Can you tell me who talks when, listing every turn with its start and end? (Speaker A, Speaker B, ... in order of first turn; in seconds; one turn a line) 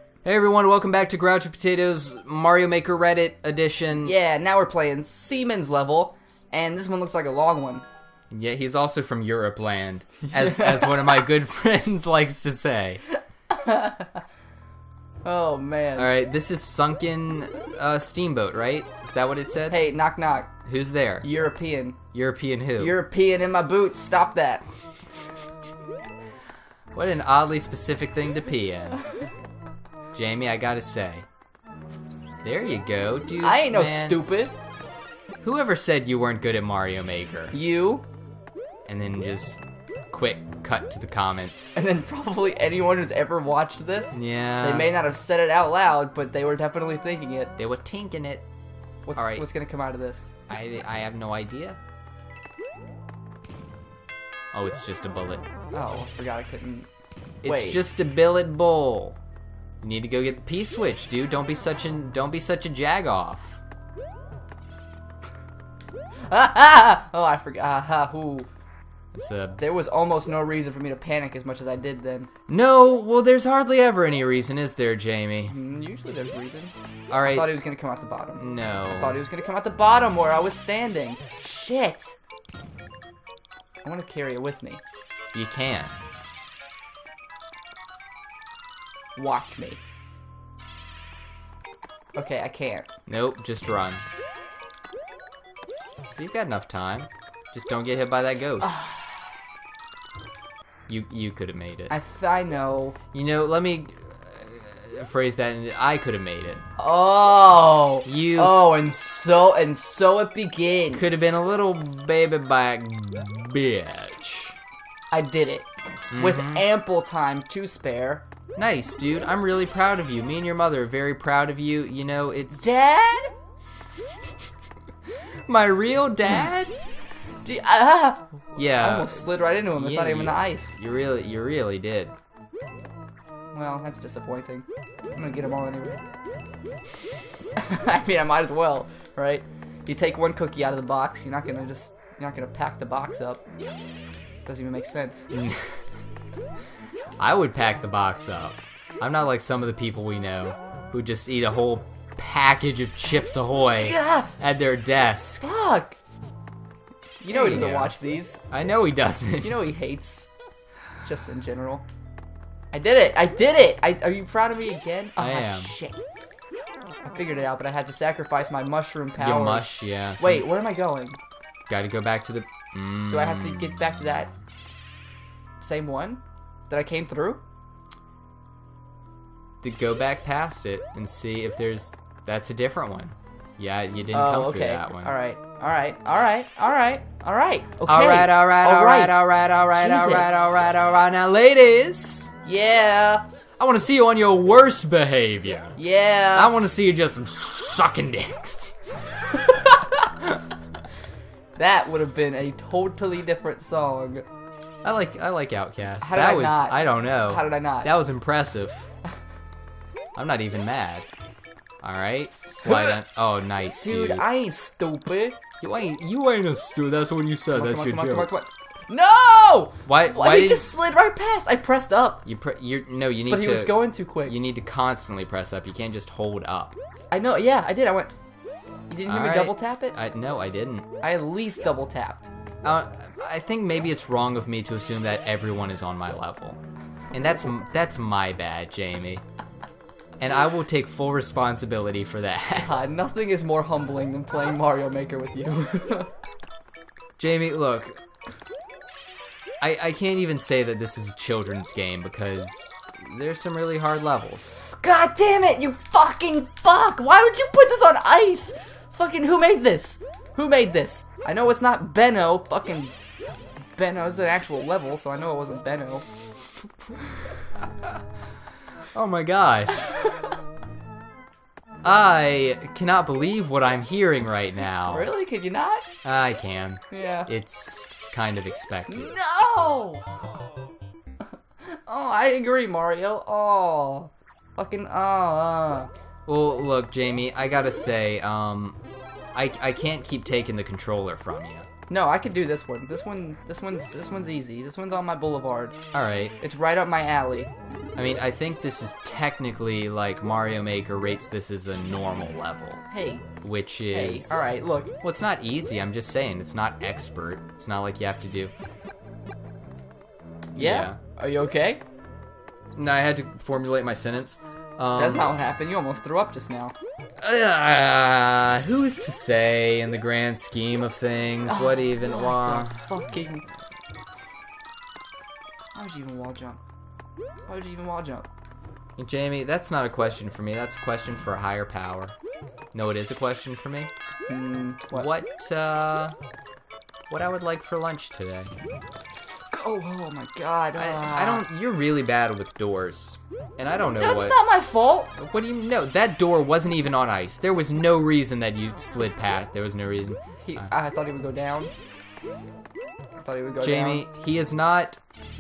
Speaker A: 0.2-4.2
Speaker B: 4.0-7.8
Speaker A: 8.3-13.0
Speaker B: 10.4-11.0
Speaker B: 13.5-14.2
Speaker B: 15.2-16.1
Speaker A: 16.0-19.8
Speaker B: 19.7-20.5
Speaker A: 20.6-21.3
Speaker B: 21.2-22.0
Speaker A: 22.1-23.0
Speaker B: 22.8-24.6
Speaker A: 26.9-29.0
Speaker A: 30.1-31.3
Speaker A: 32.4-34.2
Speaker B: 33.4-34.5
Speaker A: 35.4-37.6
Speaker B: 37.5-38.0
Speaker A: 38.9-41.9
Speaker B: 41.8-47.5
Speaker A: 44.1-44.9
Speaker A: 47.6-48.5
Speaker B: 49.1-50.4
Speaker A: 49.1-49.5
Speaker A: 50.5-51.8
Speaker A: 54.5-55.5
Speaker B: 55.7-56.9
Speaker A: 57.4-59.2
Speaker B: 57.4-57.8
Speaker A: 59.8-63.6
Speaker B: 66.3-68.5
Speaker A: 69.1-69.6
Speaker B: 69.6-72.3
Speaker A: 72.5-75.6
Speaker B: 75.5-76.7
Speaker A: 77.1-77.6
Speaker B: 77.3-82.2
Speaker A: 78.4-79.2
Speaker B: 83.8-84.8
Speaker A: 85.3-86.0
Speaker B: 89.2-89.8
Speaker B: 92.2-92.9
Speaker A: 93.1-94.0
Speaker A: 96.1-98.8
Speaker B: 98.6-99.3
Speaker A: 100.9-101.9
Speaker B: 101.9-103.0
Speaker A: 103.1-106.6
Speaker B: 106.8-111.4
Speaker A: 108.0-108.7
Speaker A: 110.9-114.6
Speaker B: 115.1-118.2
Speaker A: 116.1-116.7
Speaker A: 118.6-122.7
Speaker B: 122.5-123.3
Speaker A: 125.5-126.8
Speaker B: 127.4-130.8
Speaker A: 128.6-132.2
Speaker B: 133.5-136.1
Speaker B: 137.6-143.4
Speaker B: 144.5-145.3
Speaker A: 145.3-145.8
Speaker A: 147.2-155.4
Speaker B: 153.8-154.3
Speaker B: 155.4-156.0
Speaker B: 157.2-158.4
Speaker A: 157.3-157.9
Speaker A: 158.5-159.7
Speaker B: 159.4-160.3
Speaker B: 161.0-161.8
Speaker B: 162.7-166.1
Speaker A: 165.2-165.8
Speaker B: 167.1-171.2
Speaker A: 169.2-170.5
Speaker A: 171.7-174.0
Speaker B: 173.1-174.3
Speaker B: 175.6-177.4
Speaker A: 179.6-185.1
Speaker B: 184.1-190.6
Speaker A: 187.9-192.3
Speaker B: 192.4-193.2
Speaker A: 193.6-195.8
Speaker B: 195.8-196.5
Speaker A: 196.3-199.2
Speaker B: 199.7-200.0
Speaker B: 201.6-204.2
Speaker A: 204.8-208.9
Speaker B: 206.0-207.9
Speaker A: 210.2-211.1
Speaker A: 211.8-214.3
Speaker B: 212.6-213.0
Speaker B: 213.8-215.4
Speaker A: 215.6-218.3
Speaker B: 217.5-222.2
Speaker A: 219.9-220.7
Speaker A: 222.2-226.8
Speaker B: 223.3-224.3
Speaker B: 227.1-228.1
Speaker B: 228.9-230.0
Speaker A: 229.1-230.9
Speaker B: 231.0-232.3
Speaker A: 232.6-236.6
Speaker A: 237.1-239.2
Speaker A: 240.2-242.8
Speaker B: 242.6-246.1
Speaker A: 247.2-248.0
Speaker A: 249.6-254.6
Speaker B: 254.6-262.9
Speaker B: 263.8-266.1
Speaker A: 268.9-269.8
Speaker A: 271.8-275.1
Speaker B: 274.9-275.9
Speaker A: 276.0-279.1
Speaker B: 276.9-277.3
Speaker B: 278.9-280.1
Speaker B: 281.9-285.9
Speaker A: 286.3-288.8
Speaker A: 289.3-291.7
Speaker B: 291.9-295.8
Speaker A: 295.9-296.4
Speaker B: 296.4-297.5
Speaker A: 298.0-302.8
Speaker B: 302.9-303.3
Speaker A: 303.4-308.5
Speaker B: 303.9-304.9
Speaker A: 310.6-311.0
Speaker B: 310.6-311.8
Speaker A: 312.8-315.3
Speaker B: 315.0-316.7
Speaker A: 317.2-322.8
Speaker B: 321.5-323.4
Speaker B: 325.7-326.6
Speaker B: 327.5-328.3
Speaker A: 329.0-332.1
Speaker A: 332.7-333.9
Speaker B: 334.3-335.1
Speaker A: 334.9-336.2
Speaker A: 337.1-338.5
Speaker B: 339.5-341.5
Speaker A: 340.8-344.4
Speaker B: 344.0-345.1
Speaker A: 345.2-350.7
Speaker B: 350.4-351.7
Speaker B: 353.2-354.1
Speaker A: 353.6-355.0